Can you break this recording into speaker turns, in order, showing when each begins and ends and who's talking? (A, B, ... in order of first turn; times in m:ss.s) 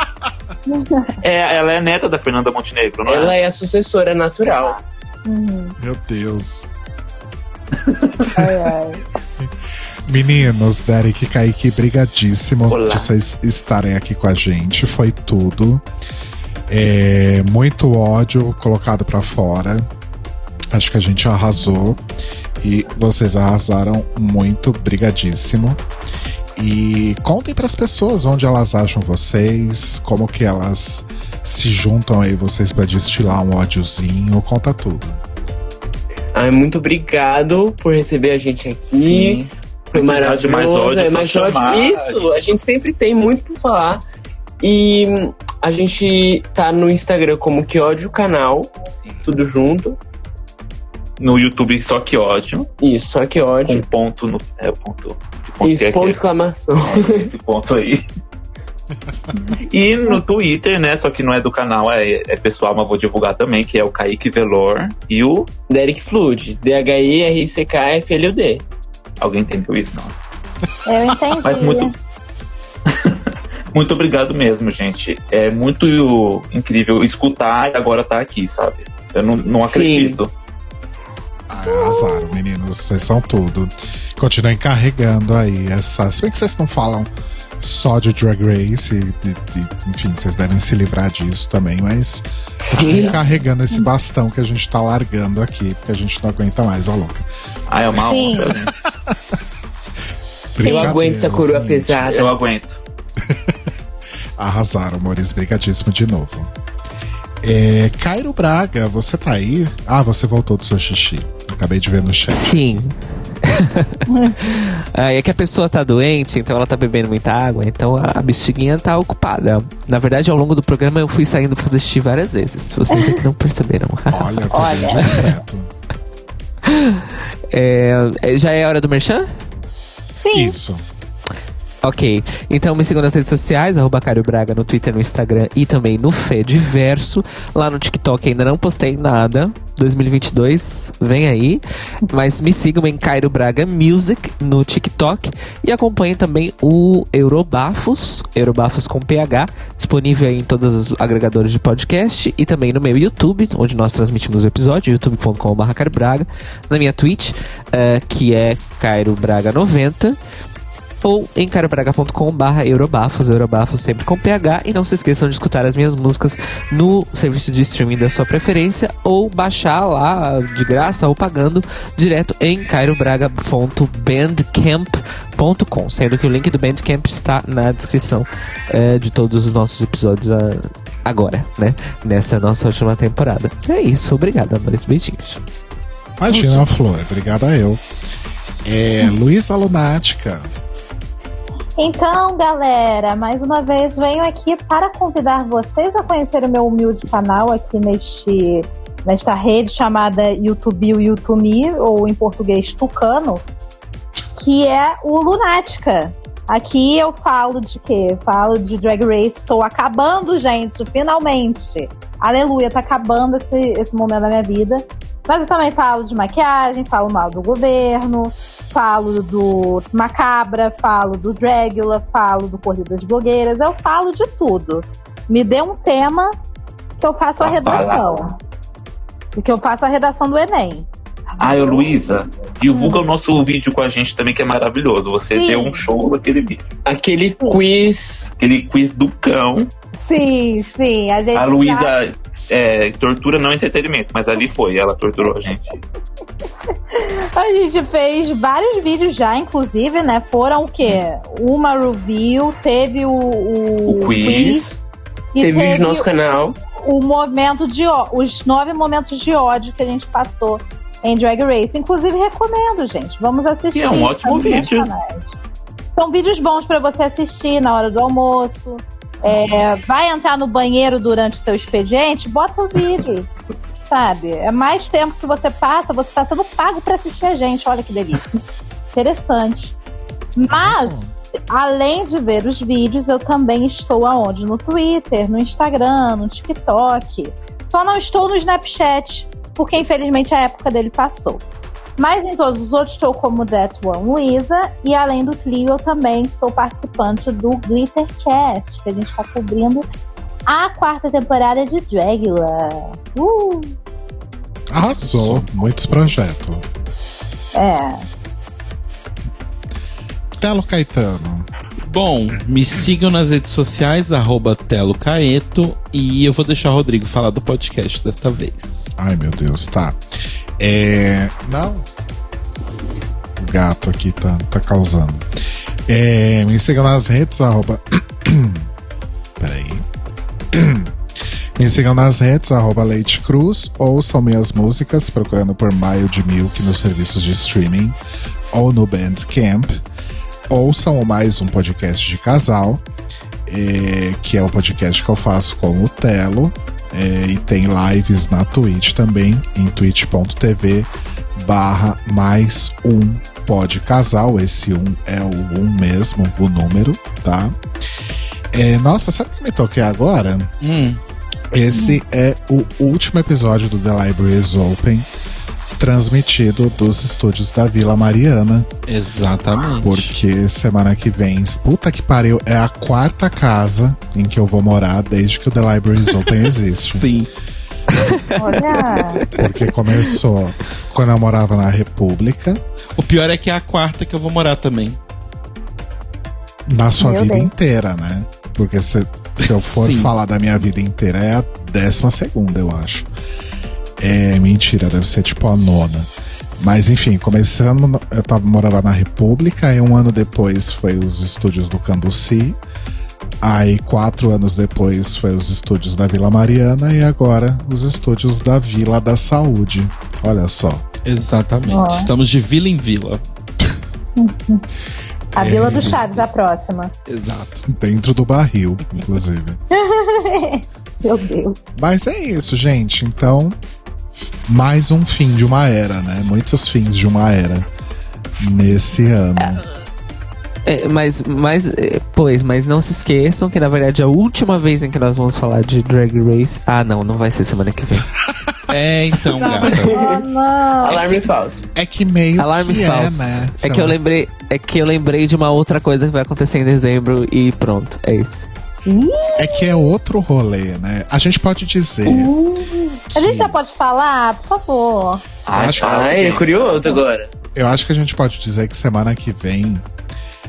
0:00.7-0:01.1 A
0:01.2-0:03.4 B
0:03.0-0:04.8 C
0:05.2-0:05.8 A
0:05.8-0:06.7 D
0:08.3-0:09.0 A
0:10.1-0:15.8 D
0:12.7-0:13.1 C
0:16.7-0:19.9 D
0:20.7-0:22.0 D
0:22.6-0:25.8 D
0:26.6-0:35.2 D
0:36.3-0:39.4 C
0:38.9-0:42.2 B
0:39.9-0:44.0 C
0:44.6-0:48.7 C
0:49.2-0:50.0 C
0:51.2-0:52.7 B
0:52.8-0:53.8 C
0:53.6-0:56.2 B
0:55.6-0:57.3 C
0:56.8-0:58.1 B
0:59.7-1:05.5 B
1:05.7-1:08.6 C
1:09.2-1:10.2 B
1:10.8-1:11.9 A
1:11.4-1:11.9 B
1:12.9-1:20.3 B
1:19.7-1:20.2 C
1:21.5-1:37.2 D
1:21.7-1:22.4 A
1:32.7-1:33.2 C
1:32.8-1:33.2 B
1:37.7-1:38.7 B
1:38.0-1:38.5 A
1:38.4-1:39.1 D
1:40.5-1:42.2 D
1:40.6-1:42.3 C
1:40.6-1:41.0 A
1:42.1-1:42.8 B
1:43.2-1:43.7 D
1:44.4-1:46.5 D
1:47.4-1:52.8 D
1:52.3-2:04.9 E
1:54.1-1:54.5 A
2:04.1-2:05.7 D
2:04.5-2:05.2 A
2:06.6-2:09.3 E
2:10.2-2:10.6 A
2:10.3-2:10.8 D
2:11.8-2:40.2 E
2:41.0-3:05.4 E
3:06.2-3:07.8 D
3:08.6-3:10.5 D
3:11.8-3:23.4 A
3:24.4-3:46.3 A
3:47.0-3:48.3 A
3:47.4-3:48.0 B
3:49.4-3:50.9 A
3:51.4-3:56.7 B
3:52.7-3:53.0 A
3:55.3-3:55.8 A
3:56.8-3:58.3 C
3:58.4-3:59.7 B
4:00.0-4:01.9 A
4:01.3-4:05.8 B
4:06.9-4:14.8 A
4:13.9-4:14.7 B
4:15.3-4:16.1 A
4:15.4-4:16.6 C
4:16.8-4:25.3 A
4:23.7-4:24.9 B
4:25.9-4:33.3 A
4:33.8-4:38.4 A
4:38.9-4:39.8 A
4:40.4-4:51.4 A
4:40.5-4:41.1 D
4:52.0-4:59.8 A
5:00.5-5:03.8 A
5:04.7-5:06.6 D
5:05.0-5:05.4 F
5:07.5-5:08.0 A
5:10.4-5:11.5 D
5:11.9-5:18.9 F
5:19.0-5:20.0 D
5:20.6-5:21.8 D
5:23.4-5:25.3 D
5:25.9-5:28.7 D
5:29.4-5:29.8 D
5:30.5-5:30.9 D
5:31.6-5:38.0 D
5:38.5-5:39.8 D
5:40.5-5:42.8 D
5:43.5-5:57.6 D
5:58.5-6:00.5 D
6:00.6-6:01.0 F
6:01.5-6:05.0 D
6:01.7-6:02.0 A
6:05.8-6:08.7 D
6:08.9-6:10.1 F
6:09.8-6:17.1 D
6:16.7-6:17.3 F
6:17.9-6:19.4 E
6:18.4-6:19.2 A
6:19.3-6:22.6 D
6:23.0-6:25.0 F
6:26.7-6:33.1 D
6:27.0-6:27.5 A
6:29.5-6:30.1 F
6:34.0-6:42.6 D
6:43.4-6:50.9 D
6:51.0-6:53.2 F
6:51.7-6:52.1 A
6:54.2-6:54.6 A
6:55.3-6:56.3 D
6:55.4-6:56.9 A
6:55.6-6:56.0 F
6:57.1-6:57.6 F
6:57.7-6:59.6 D
6:59.7-7:01.6 A
7:01.8-7:03.6 D
7:04.4-7:07.7 D
7:08.4-7:09.6 D
7:10.6-7:18.1 E
7:18.7-7:20.0 F
7:19.5-7:20.2 C
7:19.6-7:21.2 A
7:20.8-7:21.7 C
7:21.7-7:24.0 D
7:22.4-7:28.4 E
7:28.9-7:29.6 A
7:29.4-7:32.3 D
7:32.1-7:35.3 A
7:33.1-7:33.6 D
7:35.4-7:37.0 B
7:35.5-7:35.8 D
7:35.8-7:37.3 C
7:37.5-7:39.8 D